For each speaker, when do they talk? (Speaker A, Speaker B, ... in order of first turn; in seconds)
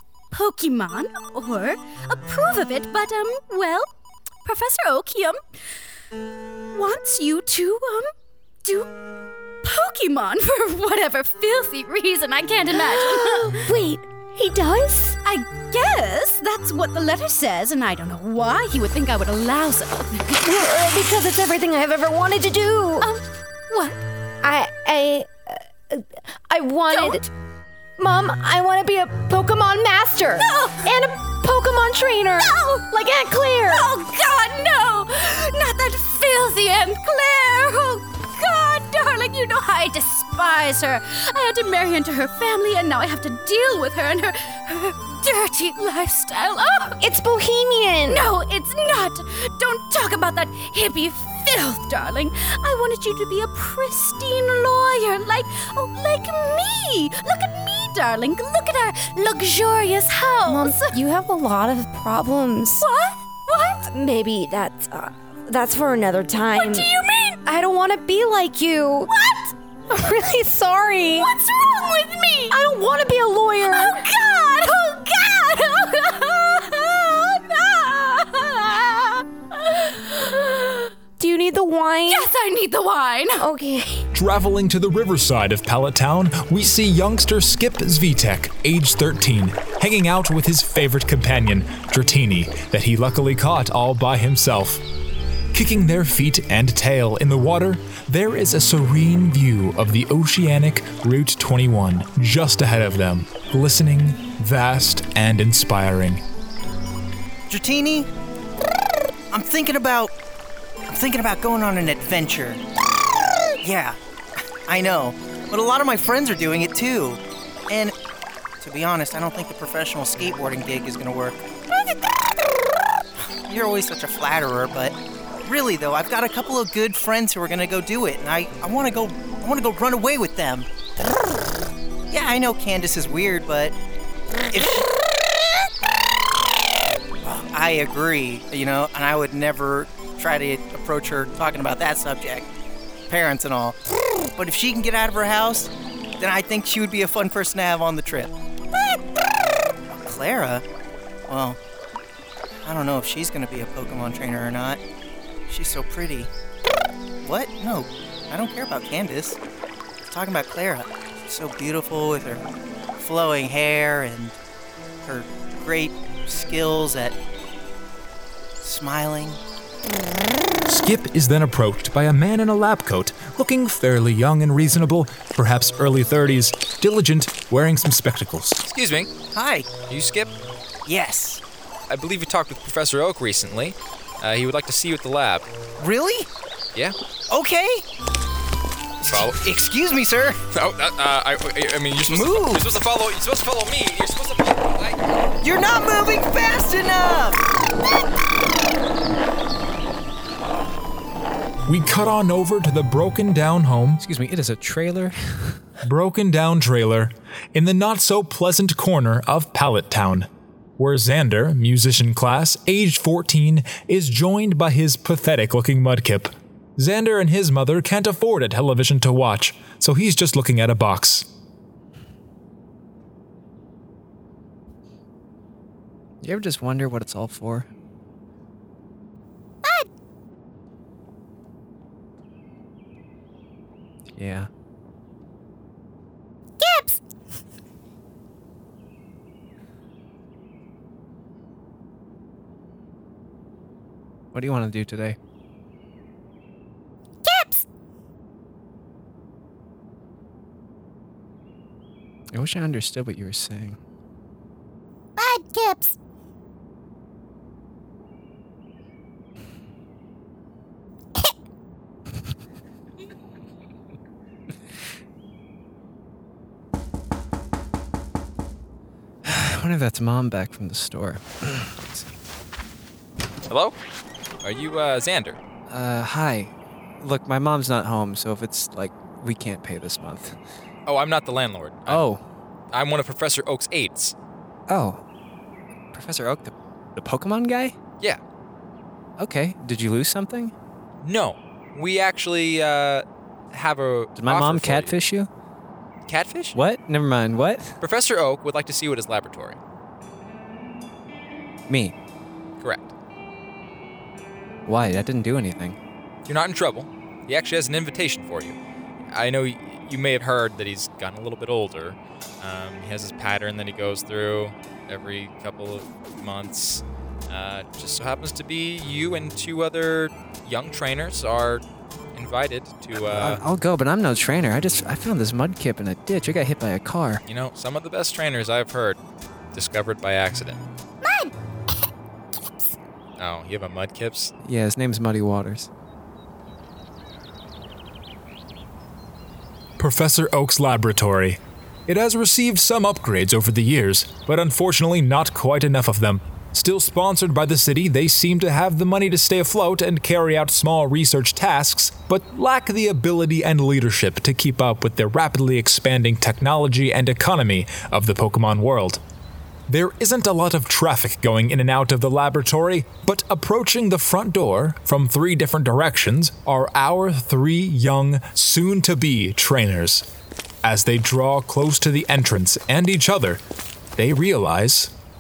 Speaker A: 0.3-3.9, 4.5-5.4, 6.7-8.1, 8.6-8.9, 9.6-13.7, 15.0-20.4, 23.0-24.0, 26.9-27.3, 30.4-30.9, 32.4-32.8, 33.7-47.0, 48.1-61.0, 62.8-63.9, 66.5-67.4, 69.1-69.5, 71.2-72.6, 73.7-80.8, 82.1-83.5
Speaker B: 12.7-15.1, 20.3-23.1, 24.4-27.3, 28.0-33.9, 47.0-48.2, 60.5-62.9, 63.8-66.9, 67.5-69.1, 69.9-71.3, 72.5-76.8, 81.2-82.3, 83.4-84.0, 236.6-237.0, 247.2-247.7, 255.2-256.0, 331.0-331.3, 332.4-332.7
Speaker C: 84.1-94.8, 95.5-106.2, 170.7-178.6, 201.7-204.0, 205.8-221.3, 339.8-359.0, 359.7-370.1, 370.6-373.4, 374.0-374.9
Speaker D: 107.5-108.1, 109.3-110.1, 110.9-112.6, 113.6-114.0, 114.7-117.9, 118.6-121.4, 123.2-130.7, 132.1-133.8, 134.5-134.9, 137.2-142.5, 143.1-143.8, 144.4-148.3, 150.1-150.6, 151.3-151.6, 152.6-154.8, 155.5-156.3, 157.2-159.4, 160.1-162.4, 163.0-164.4, 165.0-167.2, 168.6-169.4, 179.3-179.7, 180.9-181.4, 185.8-186.3, 187.3-187.8, 189.0-190.4, 192.1-192.8, 195.4-197.4
Speaker E: 178.7-179.1, 179.9-180.3, 181.9-185.5, 189.0-189.4, 190.5-195.0, 273.5-273.8, 274.4-275.4, 280.9-282.1, 282.7-284.1, 291.0-295.0, 296.1-296.6, 297.8-299.6, 302.6-302.9, 306.3-308.6, 309.1-321.6, 322.1-323.4, 327.3-329.0, 329.5-330.6, 333.2-334.3
Speaker F: 204.0-205.6, 226.2-227.7, 234.2-234.5, 244.3-245.2, 252.3-253.8, 269.2-272.1, 275.7-280.4, 281.9-282.2, 284.7-285.0, 285.9-287.8, 289.2-290.5, 294.2-295.3, 296.6-297.8, 301.7-301.9, 304.7-305.8, 323.0-327.2, 334.4-335.7